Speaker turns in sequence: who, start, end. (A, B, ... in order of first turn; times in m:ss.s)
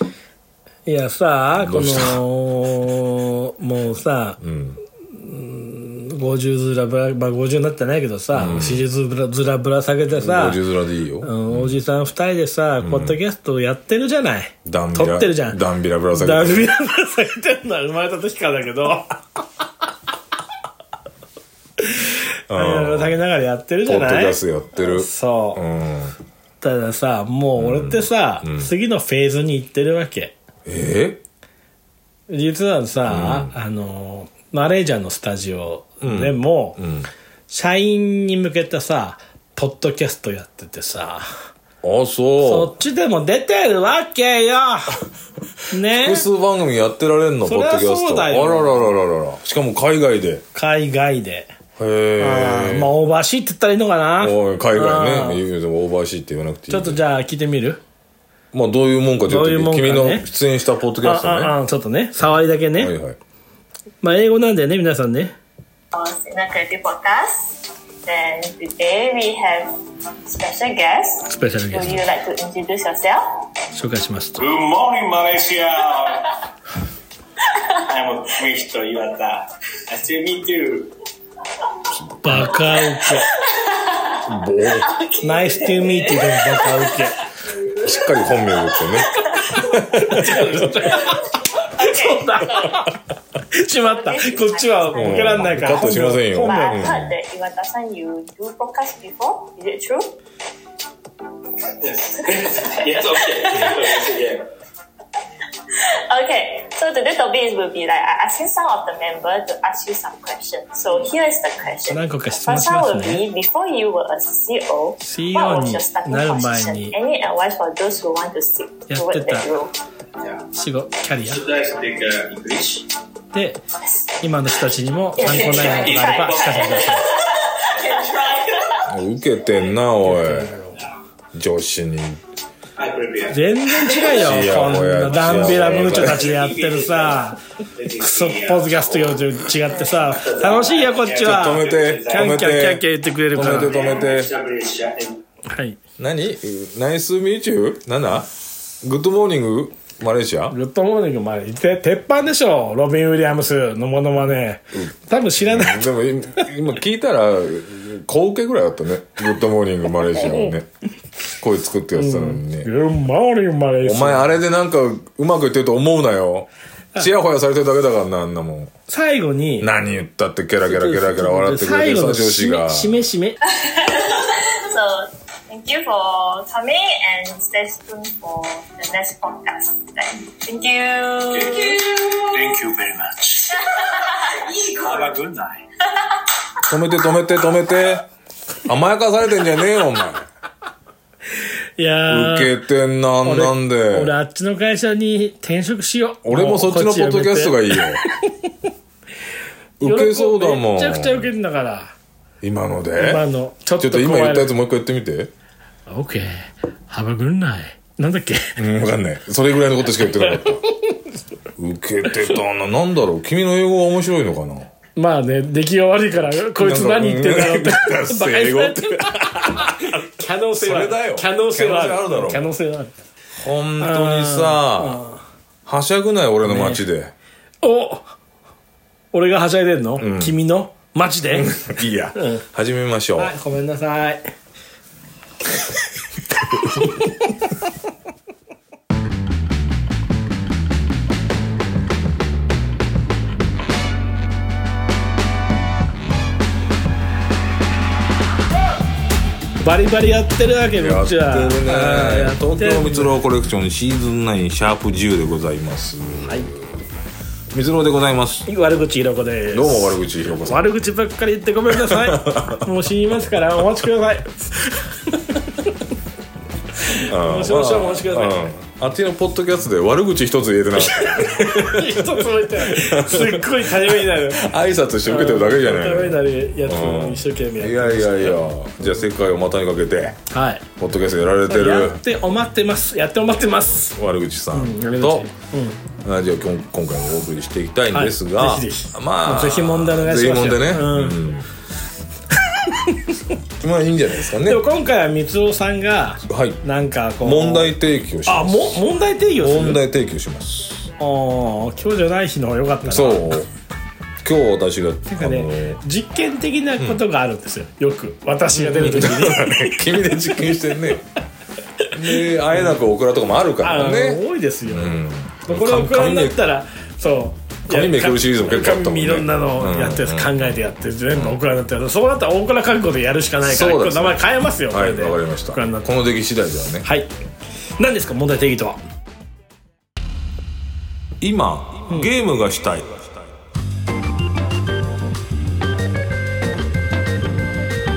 0:00.9-0:04.4 A
0:01.6-0:02.2 B
0:04.4-0:04.8 B
0:05.1-0:10.6 A
0:08.3-0:08.8 B
0:10.1-0:11.8 B
0:11.2-0:15.6 A
0:12.8-0:13.2 B
0:14.6-0:16.7 B
0:16.1-0:19.2 A
0:21.8-0:25.6 A
0:22.5-0:23.2 B
0:23.8-0:26.2 B
0:26.6-0:30.4 A
0:27.6-0:28.7 B
0:30.7-0:31.2 B
0:32.3-0:36.8 A
0:33.1-0:33.5 B
0:36.0-0:37.1 B
0:37.5-0:41.5 A
0:41.8-0:42.7 B
0:42.4-0:45.0 A
0:45.7-0:46.3 A
0:45.8-0:50.4 B
0:47.4-0:48.9 A
0:50.5-0:51.5 A
0:51.8-0:52.9 B
0:52.2-0:55.4 A
0:54.2-0:57.0 B
0:56.7-0:57.8 A
0:58.5-1:01.6 B
0:59.3-1:00.3 A
1:01.0-1:02.9 A
1:02.8-1:03.2 B
1:04.0-1:05.3 A
1:05.9-1:13.2 C
1:11.3-1:12.0 A
1:13.7-1:14.4 A
1:14.4-1:16.4 D
1:17.8-1:20.9 D
1:22.2-1:23.3 A
1:22.2-1:22.5 B
1:23.7-1:24.2 C
1:24.2-1:24.9 B
1:24.8-1:29.7 C
1:25.2-1:27.2 A
1:27.8-1:30.7 B
1:29.9-1:33.0 A
1:30.9-1:32.9 C
1:33.5-1:36.9 A
1:33.7-1:35.5 C
1:34.9-1:37.1 B
1:36.4-1:40.2 C
1:41.8-1:44.5 D
1:43.5-1:43.7 C
1:45.7-1:59.7 C
1:51.9-1:53.2 A
1:55.0-1:57.0 A
1:58.9-1:59.5 A
2:00.5-2:01.4 A
2:01.2-2:02.9 D
2:03.3-2:03.6 A
2:04.2-2:07.1 A
2:05.2-2:08.8 C
2:05.2-2:08.8 D
2:08.9-2:10.6 B
2:10.0-2:10.8 A
2:11.3-2:12.2 B
2:12.8-2:14.5 D
2:13.3-2:17.4 A
2:14.1-2:16.3 B
2:15.1-2:22.5 D
2:18.0-2:23.8 A
2:21.2-2:24.3 B
2:23.4-2:25.2 D
2:25.5-2:25.8 A
2:26.0-2:28.3 B
2:28.8-2:30.6 B
2:30.5-2:35.9 A
2:34.8-2:40.7 B
2:41.4-2:42.7 B
2:42.0-2:44.3 A
2:43.8-2:48.7 B
2:48.9-2:49.7 A
2:49.6-2:53.0 B
2:50.6-2:53.4 A
2:53.6-3:02.2 C
3:01.3-3:03.6 D
3:04.0-3:05.1 C
3:04.3-3:05.6 D
3:06.6-3:08.1 B
3:08.6-3:10.3 B
3:11.8-3:12.6 A
3:12.1-3:14.2 B
3:13.2-3:18.5 A
3:16.2-3:18.0 B
3:19.8-3:21.3 B
3:19.8-3:21.9 A
3:22.4-3:23.3 B
3:23.0-3:24.5 A
3:23.8-3:25.3 B
3:25.9-3:28.6 A
3:28.6-3:30.6 B
3:30.2-3:30.9 A
3:31.6-3:34.7 B
3:32.1-3:32.3 A
3:35.0-3:42.9 A
3:36.6-3:39.9 B
3:40.6-3:42.5 B
3:43.4-3:45.0 B
3:43.8-3:45.2 A
3:45.7-3:47.1 B
3:46.4-3:46.8 A
3:47.6-3:48.1 A
3:49.1-3:52.4 A
3:50.0-3:50.4 B
3:51.3-3:53.3 B
3:53.2-3:54.3 A
4:09.6-4:13.1 A
4:10.8-4:16.8 B
4:16.2-4:16.5 A
4:17.5-4:18.5 B
4:18.5-4:25.8 A
4:19.5-4:20.6 B
4:21.7-4:22.7 B
4:26.8-4:28.5 A
4:27.0-4:40.2 B
4:30.8-4:34.5 A
4:35.0-4:39.0 A
4:40.3-4:40.7 A
4:40.8-4:42.0 B
4:41.5-4:44.0 A
4:43.9-4:45.3 B
4:44.5-4:45.8 A
4:46.0-4:51.5 B
4:47.9-4:51.3 A
4:52.6-4:53.2 A
4:53.3-4:54.6 B
4:54.4-4:59.8 A
4:56.2-4:56.6 B
4:57.2-5:00.9 B
5:01.0-5:03.4 A
5:02.8-5:03.5 B
5:04.2-5:05.8 B
5:05.1-5:10.6 A
5:08.6-5:11.1 B
5:11.9-5:16.4 B
5:12.1-5:12.7 A
5:13.6-5:25.9 A
5:17.7-5:20.6 B
5:21.1-5:21.4 B
5:23.4-5:26.9 B
5:26.8-5:27.1 A
5:27.8-5:28.8 A
5:31.2-5:33.2 B